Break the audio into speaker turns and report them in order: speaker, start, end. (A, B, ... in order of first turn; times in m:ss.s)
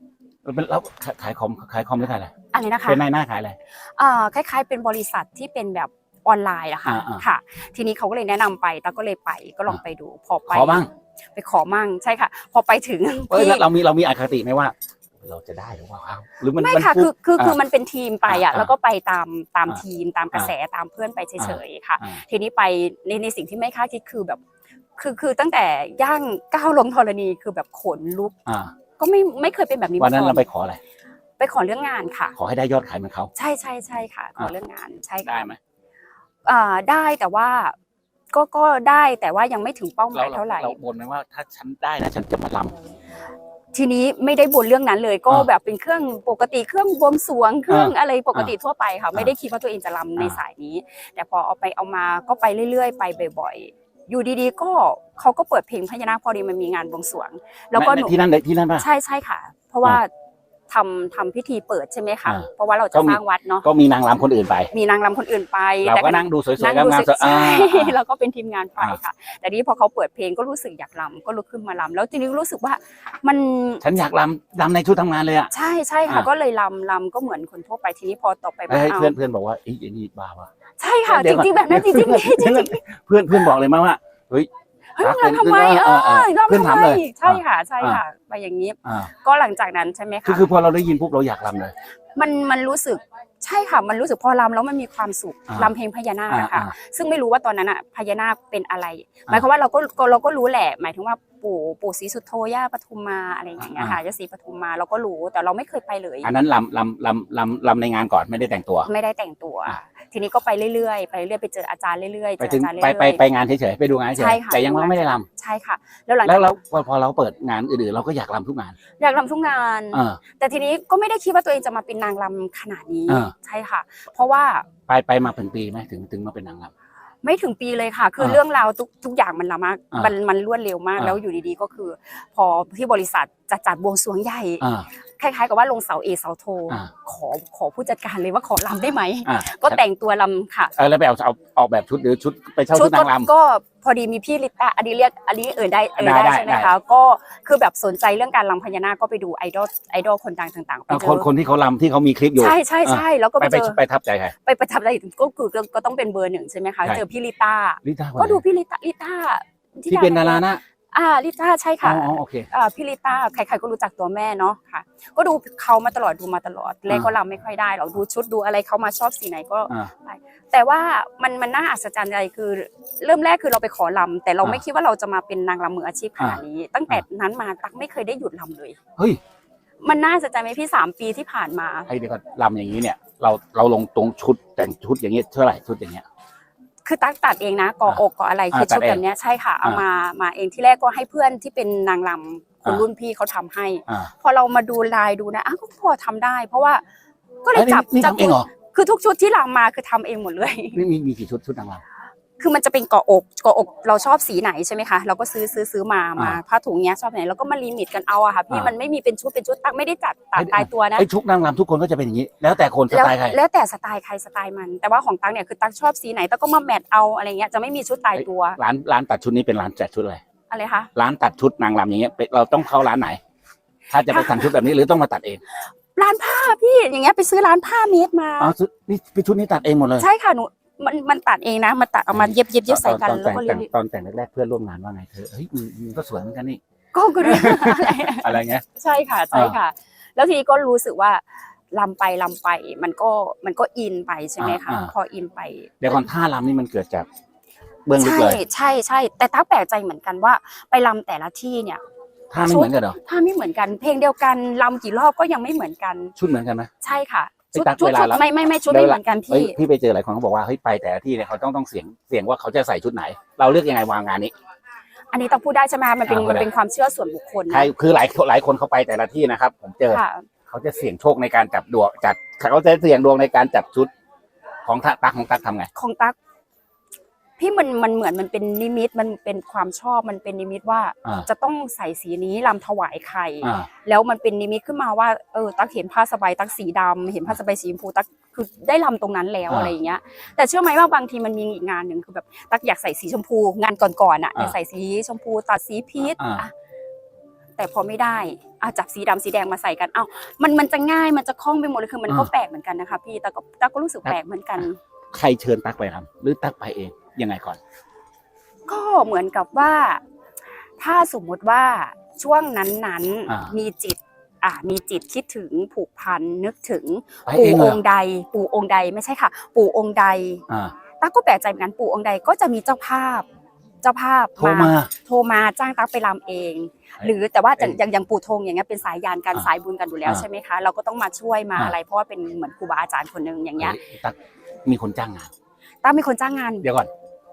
0:00.4-0:02.3 A
0:02.5-0:03.0 B
0:02.8-0:03.6 A
0:03.7-0:13.7 B
0:06.8-0:07.2 A
0:10.5-0:10.9 A
0:13.3-0:17.6 A
0:16.5-0:24.4 B
0:18.3-0:18.7 A
0:21.4-0:22.2 A
0:25.0-0:28.4 B
0:28.4-0:28.8 A
0:29.0-0:30.5 B
0:30.0-0:30.8 A
0:31.4-0:32.4 B
0:32.4-0:33.3 A
0:33.3-0:35.4 B
0:35.2-0:35.6 A
0:36.4-0:37.8 B
0:38.3-0:40.8 B
0:40.1-0:42.8 A
0:43.7-0:58.2 B
0:47.7-0:48.5 A
0:57.7-0:58.9 A
0:58.8-1:00.1 B
1:00.7-1:03.6 B
1:02.2-1:04.7 A
1:04.7-1:13.8 B
1:05.8-1:08.0 A
1:13.8-1:15.5 A
1:15.5-1:19.1 B
1:18.7-1:20.5 A
1:20.8-1:22.8 B
1:21.0-1:24.5 A
1:24.9-1:30.5 B
1:25.0-1:28.0 A
1:28.8-1:29.1 A
1:30.2-1:31.7 A
1:32.0-1:46.3 B
1:36.3-1:36.7 A
1:43.6-1:44.0 A
1:46.2-1:48.9 A
1:48.8-1:53.2 B
1:52.4-1:55.2 A
1:54.1-1:56.6 B
1:56.2-1:58.8 A
1:59.0-2:04.7 B
1:59.9-2:00.2 A
2:03.1-2:03.3 A
2:04.9-2:06.7 A
2:07.2-2:14.6 B
2:14.6-2:14.9 A
2:15.2-2:20.7 B
2:19.2-2:19.8 A
2:20.8-2:23.3 A
2:22.7-2:31.3 B
2:26.0-2:26.7 A
2:30.9-2:34.3 A
2:32.4-2:33.8 B
2:34.3-2:58.8 B
2:37.8-2:38.4 A
2:39.9-2:40.6 A
2:41.8-2:42.5 A
2:56.2-2:57.0 A
2:59.8-3:01.9 B
3:01.9-3:06.0 A
3:06.8-3:16.8 B
3:08.5-3:09.0 A
3:13.9-3:14.1 A
3:17.4-3:20.8 B
3:17.5-3:18.5 A
3:20.7-3:21.8 A
3:22.4-3:31.1 B
3:30.3-3:33.4 A
3:32.9-3:38.6 B
3:38.2-3:40.2 A
3:40.5-3:40.9 B
3:40.9-3:43.2 A
3:43.9-3:45.4 A
3:44.1-3:44.4 B
3:45.9-3:48.5 B
3:48.4-3:50.1 A
3:50.0-3:53.7 B
3:52.1-3:56.6 A
3:56.9-4:06.0 B
3:57.2-3:58.6 A
3:59.3-3:59.6 A
4:04.4-4:04.9 A
4:05.8-4:07.1 A
4:07.8-4:08.4 A
4:08.0-4:11.8 B
4:12.3-4:13.0 A
4:12.4-4:16.1 B
4:16.2-4:16.7 A
4:16.8-4:19.6 B
4:17.5-4:24.3 A
4:25.1-4:27.7 B
4:26.0-4:26.5 A
4:27.5-4:33.9 A
4:29.9-4:30.3 B
4:34.6-4:35.7 A
4:35.7-4:36.2 B
4:37.4-4:56.5 B
4:43.4-4:43.7 A
4:49.5-4:49.7 A
4:56.1-4:56.4 A
4:57.6-5:04.8 B
5:05.1-5:07.6 A
5:08.7-5:10.0 B
5:10.8-5:20.4 B
5:13.3-5:13.5 A
5:17.2-5:17.8 A
5:20.5-5:20.7 A
5:21.0-5:23.3 B
5:23.8-5:33.8 B
5:24.4-5:24.9 A
5:33.6-5:35.3 A
5:35.8-5:36.7 B
5:36.6-5:36.9 A